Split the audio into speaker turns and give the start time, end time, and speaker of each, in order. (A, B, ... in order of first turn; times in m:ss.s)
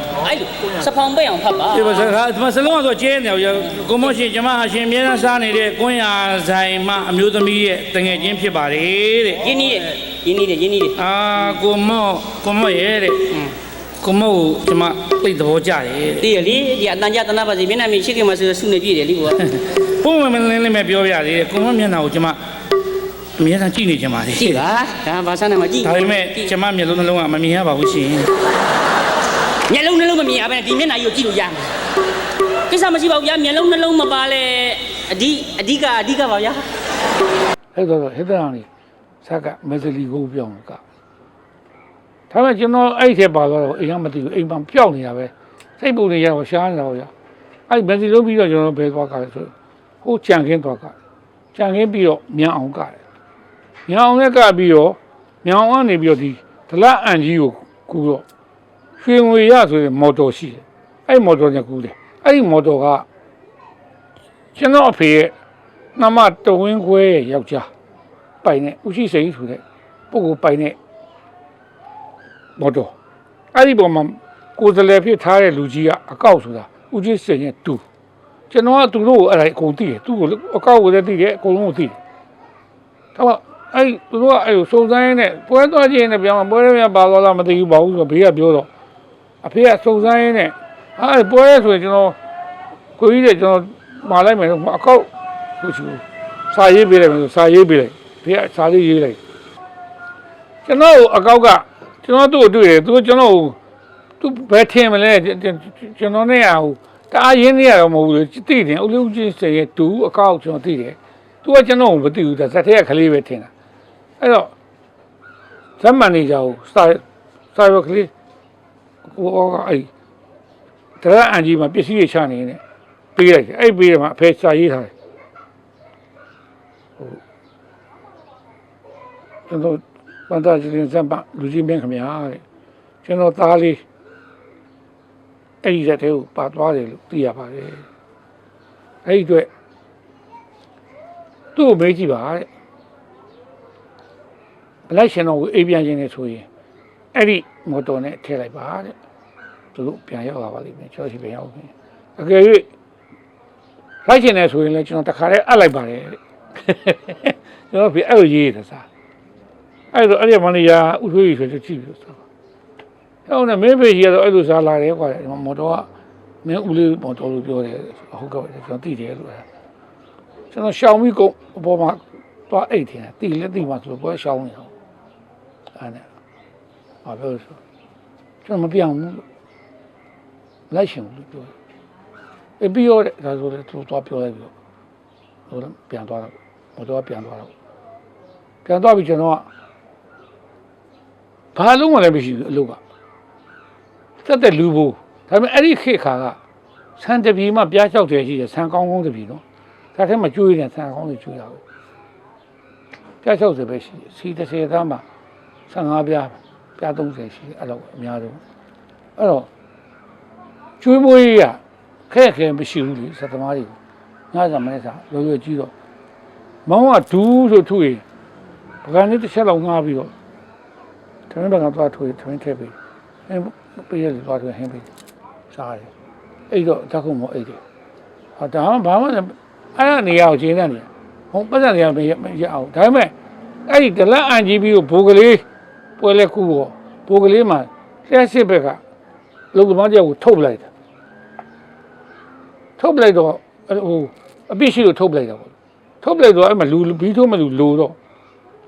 0:00.2-0:02.1 A
0:01.7-0:09.5 B
0:09.4-0:11.0 A
0:11.0-0:13.4 B
0:14.0-0:16.3 B
0:16.2-0:19.4 A
0:19.4-0:22.4 B
0:23.4-0:24.6 B
0:24.4-0:26.5 A
0:25.8-0:28.3 B
0:29.7-0:31.7 A
0:32.7-0:36.6 A
0:37.7-0:38.7 C
0:39.2-0:40.8 C
0:42.3-0:47.1 C
0:47.7-0:50.9 C
0:51.5-0:53.0 C
0:53.9-0:58.2 C
0:59.0-1:03.0 C
1:04.5-1:05.3 C
1:06.0-1:07.7 C
1:08.4-1:10.8 C
1:12.6-1:12.9 C
1:13.5-1:17.8 C
1:18.5-1:22.0 C
1:23.1-1:28.7 C
1:29.4-1:32.2 C
1:33.0-1:39.2 C
1:40.6-1:43.6 C
1:44.2-1:53.5 C
1:54.2-1:54.5 C
1:55.8-1:57.0 C
1:57.5-1:58.1 C
1:59.0-1:59.9 C
2:01.0-2:02.6 C
2:03.1-2:04.9 C
2:09.5-2:12.4 C
2:13.0-2:13.8 C
2:15.6-2:17.8 C
2:19.0-2:19.5 C
2:21.5-2:22.5 C
2:24.9-2:26.5 C
2:27.1-2:28.9 C
2:29.7-2:32.7 C
2:34.0-2:38.8 C
2:39.9-2:42.2 C
2:43.3-2:45.9 C
2:46.4-2:49.4 C
2:50.5-2:54.7 C
2:55.7-2:56.0 C
2:57.0-2:57.6 C
2:58.4-2:59.2 C
3:00.7-3:01.5 C
3:02.6-3:04.5 C
3:05.5-3:07.5 C
3:08.6-3:09.5 C
3:11.5-3:12.8 C
3:14.2-3:16.4 C
3:17.0-3:19.4 C
3:19.9-3:21.6 C
3:23.2-3:25.0 C
3:25.7-3:28.4 C
3:29.2-3:29.5 C
3:30.8-3:33.8 C
3:34.3-3:35.7 C
3:36.6-3:38.0 C
3:38.8-3:40.1 C
3:41.3-3:42.7 C
3:43.3-3:44.9 C
3:45.5-3:45.9 C
3:46.5-3:47.6 C
3:48.4-3:53.1 C
3:53.7-3:55.4 C
3:56.0-3:58.8 C
3:59.5-4:00.7 C
4:02.8-4:08.0 C